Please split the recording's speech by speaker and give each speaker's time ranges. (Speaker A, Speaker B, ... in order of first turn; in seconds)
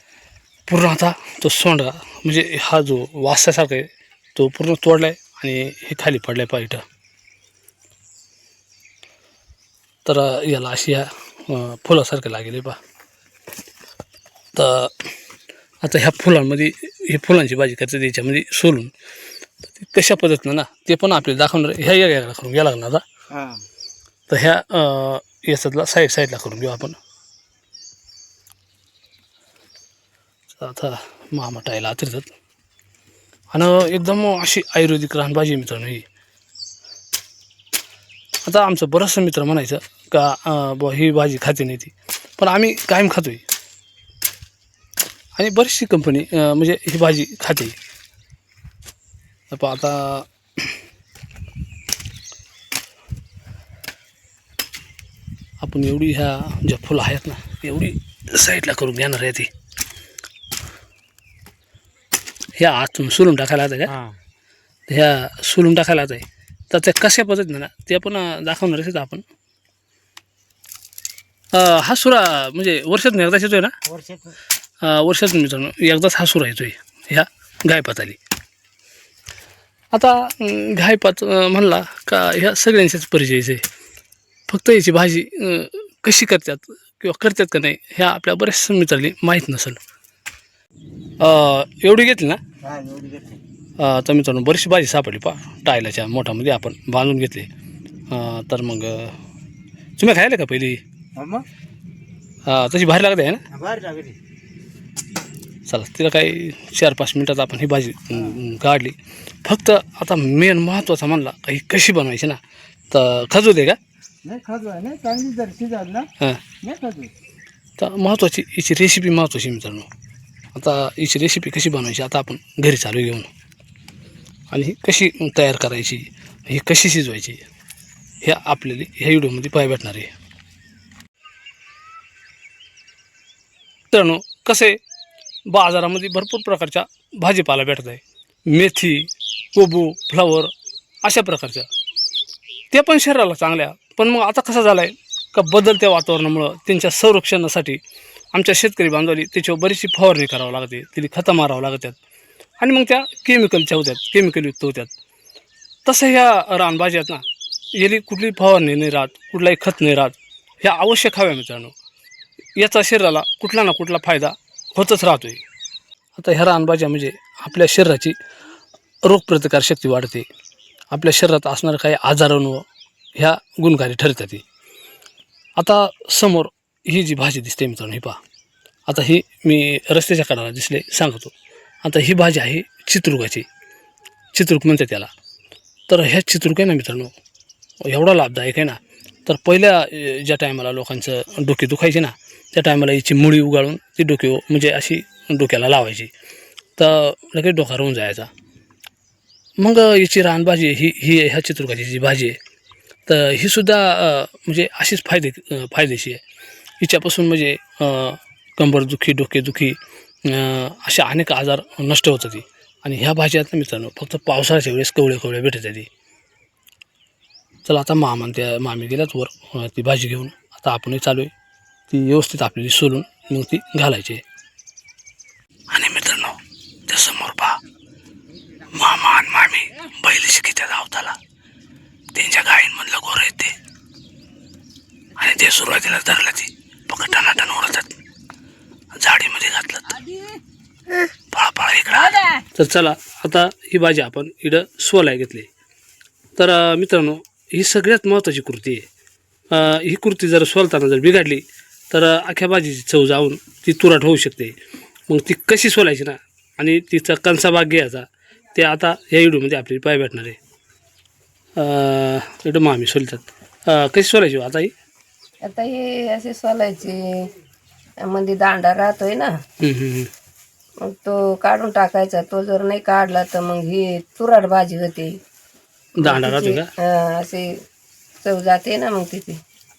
Speaker A: 0.7-6.8, 10.0-12.8, 14.5-15.1, 15.8-18.9, 19.8-23.0, 24.3-27.0, 30.5-32.3, 33.5-36.0, 38.5-43.4, 45.4-47.8, 49.5-50.3, 55.6-59.5, 62.5-64.0, 64.9-69.2, 71.5-73.7, 74.8-78.2, 79.9-83.6, 84.5-89.8, 91.2-92.4, 93.8-97.5, 98.1-99.2, 100.0-100.8, 102.5-103.4, 105.7-113.8, 116.2-116.4, 117.8-119.9, 120.5-123.3, 124.5-127.4, 128.2-130.1, 133.9-134.8, 135.5-140.5, 141.0-141.7, 142.7-147.8, 148.3-151.9, 152.6-154.9, 155.8-161.7, 162.6-165.4, 166.2-168.2, 169.0-170.3, 170.9-174.4, 175.6-178.2, 178.9-181.3, 181.8-183.5, 184.3-185.1, 185.9-187.1, 187.8-196.1, 196.8-198.3, 199.6-202.4, 203.1-206.2, 206.8-215.9, 217.7-221.3, 221.9-224.2, 225.7-227.6, 228.7-231.2, 232.1-233.6, 235.2-238.0, 238.9-240.0, 241.3-245.5, 246.4-248.9, 249.5-254.5, 255.1-260.4, 261.6-264.7, 269.6-270.1, 276.0-276.7
Speaker B: 23.3-23.6, 73.9-74.2, 92.6-93.4, 101.2-101.5, 103.5-104.2, 114.2-116.1, 116.6-117.1
Speaker C: 265.4-267.3, 268.0-269.3, 270.8-275.1, 276.0-277.5, 278.2-279.4